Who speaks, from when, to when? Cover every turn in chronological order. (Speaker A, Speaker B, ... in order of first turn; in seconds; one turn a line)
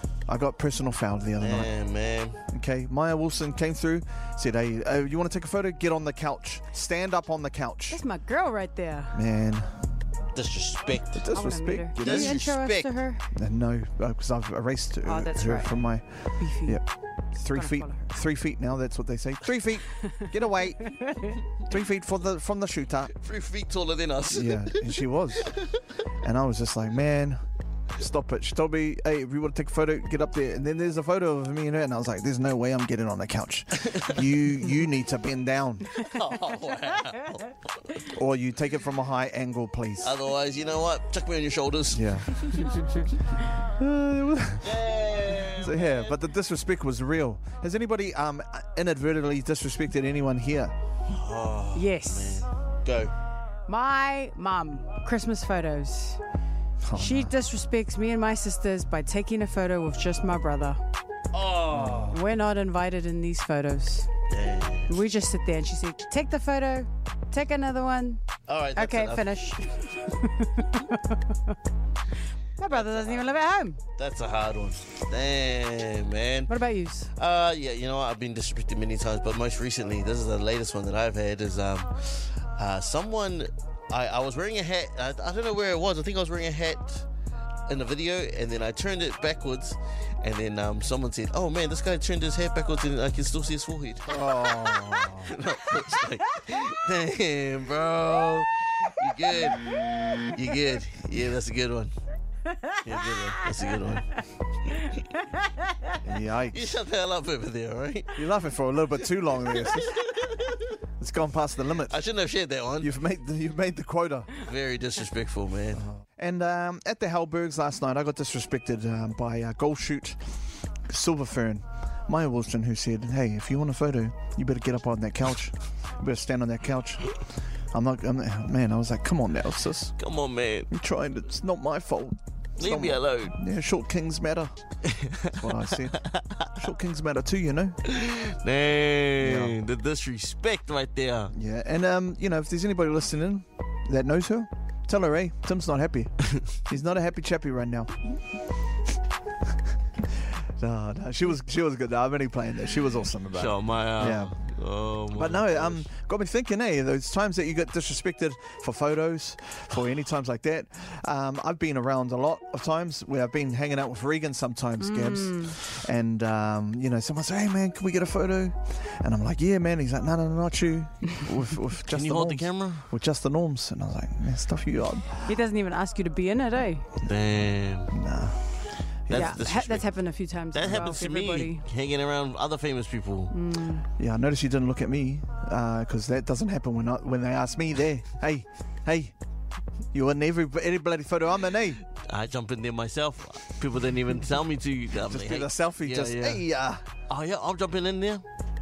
Speaker A: 0.3-1.7
Speaker B: 1.4-2.4
Speaker A: 2.5-8.0
Speaker C: 7.9-9.2
Speaker A: 9.1-9.8
Speaker B: 10.3-11.2
Speaker A: 11.1-12.4
Speaker C: 11.3-13.3
Speaker B: 12.0-12.9
Speaker A: 13.3-16.8
Speaker C: 15.1-15.8
Speaker C: 16.4-16.8
Speaker A: 17.4-21.0
Speaker C: 17.5-18.1
Speaker C: 20.9-21.4
Speaker A: 21.7-23.1
Speaker B: 23.1-25.8
Speaker A: 24.3-25.5
Speaker A: 26.2-27.4
Speaker A: 28.0-36.0
Speaker B: 33.8-34.1
Speaker B: 36.0-38.0
Speaker A: 38.1-40.1
Speaker B: 40.0-42.8
Speaker A: 41.9-42.3
Speaker A: 43.8-44.8
Speaker B: 44.6-46.1
Speaker A: 45.5-50.7
Speaker B: 51.1-53.1
Speaker C: 51.7-52.5
Speaker C: 53.7-56.2
Speaker A: 56.8-57.3
Speaker C: 56.9-60.8
Speaker B: 61.3-62.2
Speaker A: 61.8-62.1
Speaker C: 62.1-64.1
Speaker B: 64.3-65.0
Speaker C: 64.9-68.2
Speaker B: 68.5-69.4
Speaker C: 68.8-71.4
Speaker C: 72.6-73.8
Speaker B: 72.7-73.4
Speaker B: 74.0-76.5
Speaker C: 76.5-77.1
Speaker B: 77.2-87.1
Speaker B: 87.7-101.9
Speaker A: 94.1-95.4
Speaker B: 102.8-104.2
Speaker A: 106.0-106.8
Speaker B: 106.5-108.2
Speaker A: 108.2-110.0
Speaker B: 109.6-110.7
Speaker A: 111.0-112.0
Speaker B: 111.9-112.9
Speaker A: 112.8-114.4
Speaker B: 114.4-115.8
Speaker A: 116.0-120.2
Speaker A: 120.9-127.1
Speaker A: 127.7-129.9
Speaker B: 130.0-130.7
Speaker A: 130.7-134.5
Speaker B: 132.6-133.4
Speaker B: 134.9-136.5
Speaker A: 135.3-136.0
Speaker A: 136.6-137.8
Speaker B: 137.8-141.3
Speaker A: 139.2-139.6
Speaker A: 141.3-147.9
Speaker A: 150.6-154.3
Speaker B: 153.3-155.9
Speaker A: 155.1-175.2
Speaker C: 164.8-165.6
Speaker B: 171.9-172.9
Speaker C: 175.2-176.9
Speaker B: 177.0-177.9
Speaker A: 177.9-178.4
Speaker A: 179.1-179.4
Speaker B: 179.1-179.9
Speaker C: 179.1-181.6
Speaker B: 180.5-183.3
Speaker C: 183.3-183.9
Speaker A: 184.0-189.1
Speaker A: 189.9-191.8
Speaker B: 192.0-196.4
Speaker A: 195.0-196.8
Speaker B: 197.1-198.2